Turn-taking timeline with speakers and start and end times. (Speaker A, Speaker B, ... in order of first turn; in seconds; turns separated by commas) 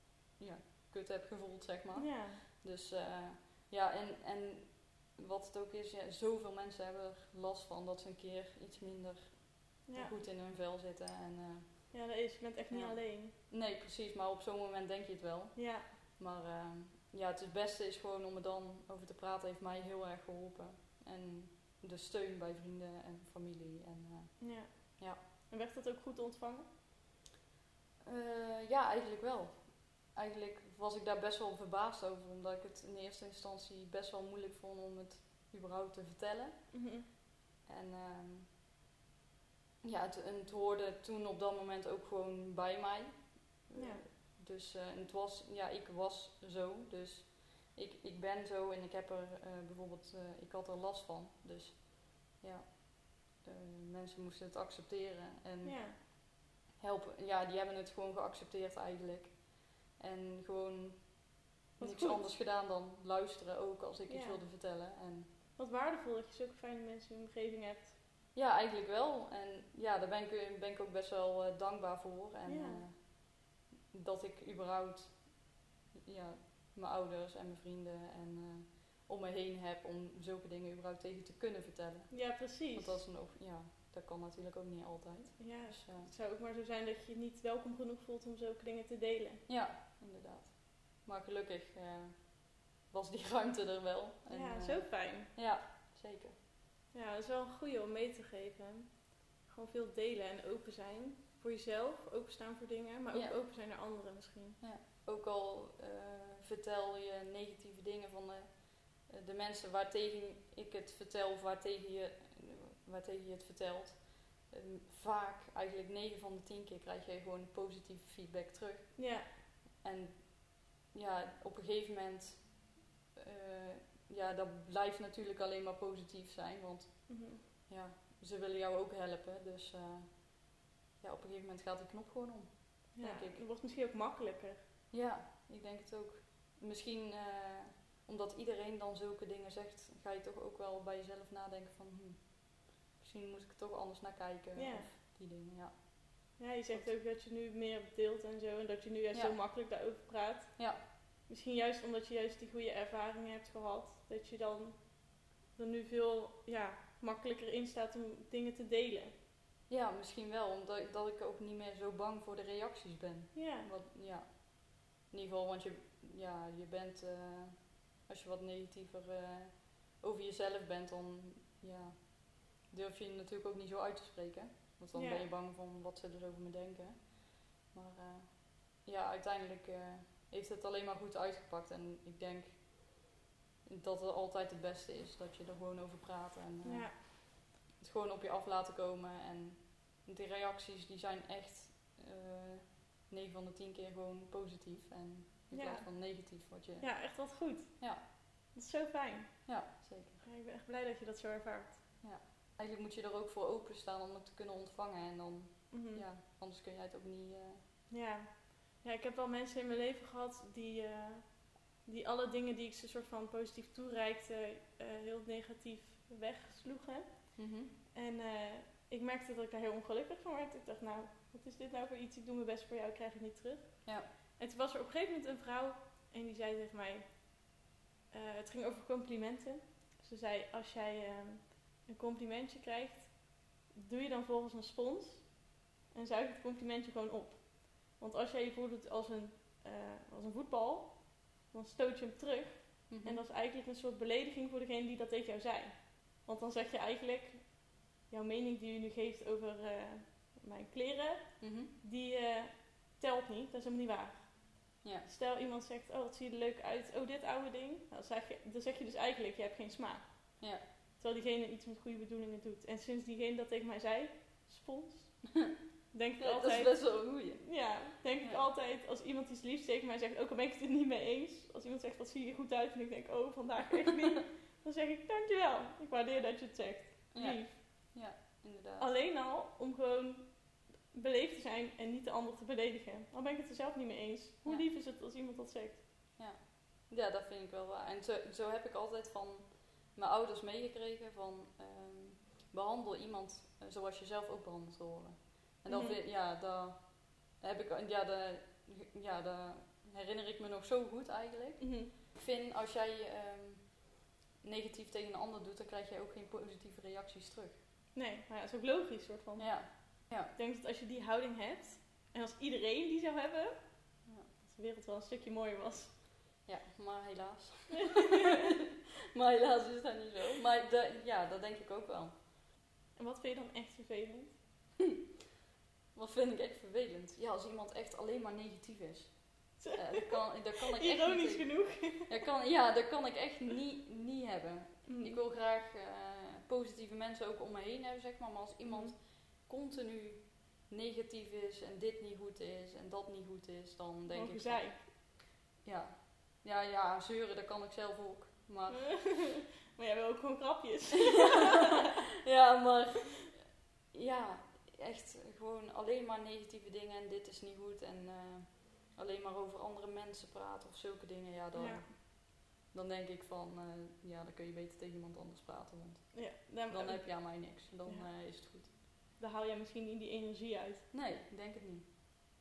Speaker A: 0.4-12.0, Speaker B: 2.0-2.4, Speaker B: 9.9-10.2, Speaker B: 11.9-13.3, Speaker A: 12.7-25.2, Speaker B: 15.6-15.9, Speaker B: 24.4-26.7, Speaker A: 28.0-36.7, Speaker B: 36.7-37.1, Speaker A: 37.7-38.5, Speaker A: 39.8-65.3, Speaker B: 43.8-44.0, Speaker B: 55.6-56.0, Speaker B: 61.8-62.4, Speaker B: 64.1-64.4, Speaker B: 65.6-67.9, Speaker A: 68.3-86.1, Speaker B: 72.5-72.8, Speaker B: 82.1-83.0, Speaker B: 85.4-89.4, Speaker A: 89.5-96.3, Speaker B: 94.3-95.3, Speaker B: 96.9-104.6, Speaker A: 103.1-103.4, Speaker A: 104.6-133.4, Speaker B: 119.0-119.3, Speaker B: 127.1-127.4, Speaker B: 133.0-134.6, Speaker A: 134.9-147.0, Speaker B: 144.6-144.9, Speaker B: 146.4-159.1, Speaker A: 149.1-149.4, Speaker A: 159.7-183.1, Speaker B: 163.3-163.7, Speaker B: 174.9-175.3, Speaker A: 183.7-197.1, Speaker B: 186.6-187.0, Speaker B: 195.5-199.5, Speaker A: 199.5-200.2, Speaker B: 200.2-201.8, Speaker A: 202.0-207.6, Speaker B: 205.7-206.0, Speaker B: 207.9-227.6, Speaker A: 217.4-217.7, Speaker B: 228.1-277.9, Speaker A: 242.9-243.2, Speaker A: 251.4-251.7, Speaker A: 254.8-255.1, Speaker A: 266.2-268.4, Speaker A: 277.1-278.9, Speaker B: 278.8-285.8, Speaker A: 286.2-307.6, Speaker B: 295.7-296.0, Speaker B: 301.6-301.9, Speaker B: 307.9-315.9, Speaker A: 309.4-310.3, Speaker A: 314.1-314.3, Speaker A: 316.4-318.3, Speaker B: 317.8-318.5, Speaker A: 319.1-322.3, Speaker B: 322.9-324.4, Speaker A: 325.9-345.1, Speaker B: 329.6-330.2, Speaker B: 330.8-332.1, Speaker B: 334.9-335.2, Speaker B: 338.7-339.0, Speaker B: 344.1-344.8, Speaker A: 345.6-349.3, Speaker B: 348.7-351.8, Speaker A: 351.6-368.7, Speaker B: 361.5-361.9, Speaker B: 366.1-368.1, Speaker B: 369.2-370.9, Speaker A: 370.9-371.9